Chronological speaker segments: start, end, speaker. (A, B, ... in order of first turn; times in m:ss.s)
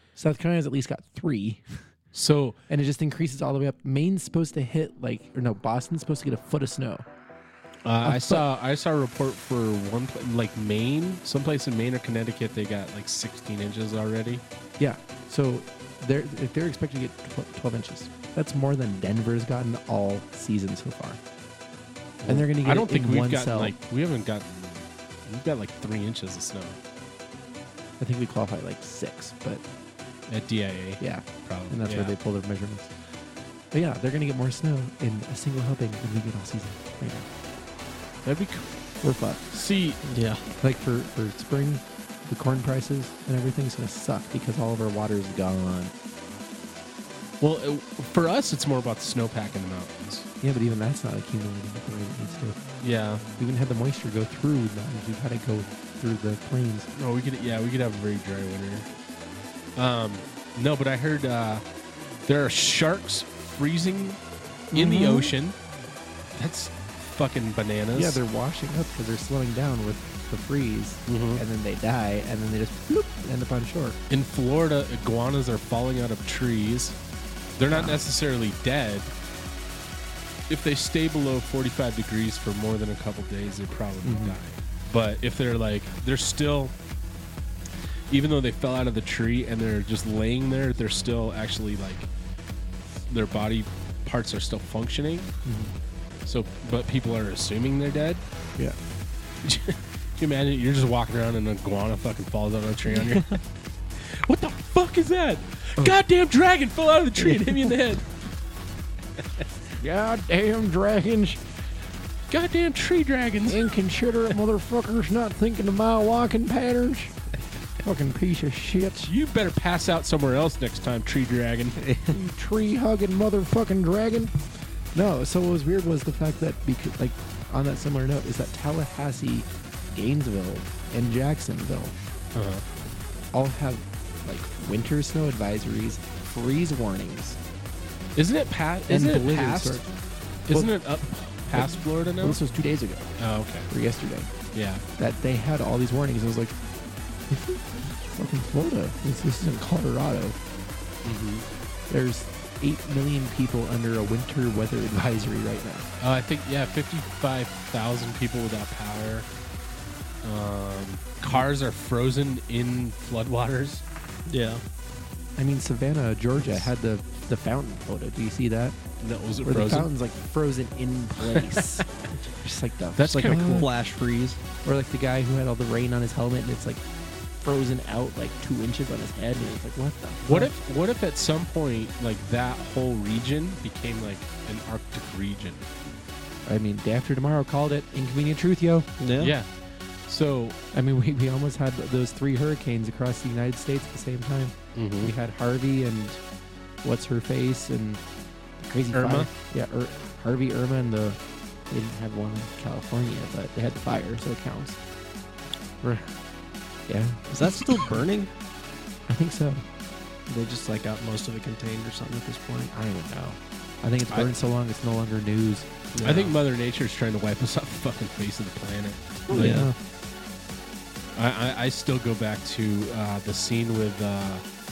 0:00.2-0:01.8 A
0:02.1-0:02.6 B
0:02.7-0:07.0 A
0:07.8-0:14.4 B
0:08.0-0:08.4 A
0:14.8-0:21.2 A
0:22.2-0:26.8 B
0:22.3-0:23.7 A
0:28.0-0:29.6 A
0:30.3-0:32.1 B
0:31.0-0:32.9 A
0:33.7-0:37.3 A
0:38.2-0:38.7 B
0:39.0-0:39.4 A
0:39.5-0:40.0 B
0:40.0-0:40.4 C
0:40.6-0:45.9 A
0:47.4-0:50.2 B
0:50.4-0:52.6 A
0:52.8-0:53.2 B
0:53.4-0:56.9 A
0:56.9-0:58.9 B
0:59.8-1:01.6 B
1:02.2-1:04.2 B
1:04.7-1:05.6 B
1:04.7-1:05.3 A
1:06.3-1:08.2 B
1:07.9-1:14.0 A
1:11.1-1:11.4 B
1:14.1-1:17.0 B
1:17.6-1:19.1 B
1:17.7-1:18.0 A
1:20.5-1:26.7 B
1:24.0-1:24.4 A
1:28.1-1:32.1 B
1:33.1-1:35.3 B
1:35.4-1:35.7 A
1:36.2-1:38.2 B
1:39.4-1:43.4 B
1:44.0-1:48.0 B
1:47.3-1:47.6 A
1:49.8-1:51.4 A
1:52.3-1:53.7 B
1:53.5-1:57.1 A
1:57.8-1:59.1 A
1:59.0-2:01.8 B
2:01.8-2:02.1 C
2:02.1-2:04.3 A
2:04.9-2:11.9 A
2:12.3-2:12.6 B
2:13.3-2:17.4 A
2:18.2-2:19.8 B
2:18.9-2:19.8 A
2:20.5-2:22.4 B
2:21.5-2:23.1 A
2:23.2-2:23.7 B
2:23.7-2:24.3 A
2:24.5-2:24.8 B
2:25.0-2:26.6 A
2:27.3-2:30.4 A
2:31.0-2:31.5 B
2:31.9-2:35.9 A
2:36.0-2:39.3 B
2:40.2-2:43.8 B
2:44.3-2:44.6 C
2:45.4-2:48.8 A
2:49.0-2:49.9 B
2:49.4-2:51.8 A
2:51.2-2:51.7 B
2:52.4-2:53.7 A
2:53.0-2:53.7 B
2:53.0-2:54.4 C
2:54.6-2:56.8 A
2:57.4-3:00.5 A
3:00.2-3:05.7 B
3:06.4-3:08.9 A
3:09.0-3:09.4 C
3:09.2-3:09.5 B
3:10.1-3:10.6 B
3:10.7-3:16.2 A
3:14.7-3:15.1 B
3:16.8-3:18.0 A
3:18.6-3:24.8 A
3:18.9-3:19.3 B
3:25.8-3:26.1 A
3:26.9-3:27.9 A
3:27.3-3:28.3 C
3:29.1-3:29.6 A
3:30.3-3:32.7 C
3:32.7-3:35.7 A
3:35.9-3:36.3 C
3:36.0-3:39.7 B
3:39.3-3:39.7 A
3:39.3-3:39.7 C
3:41.1-3:44.4 B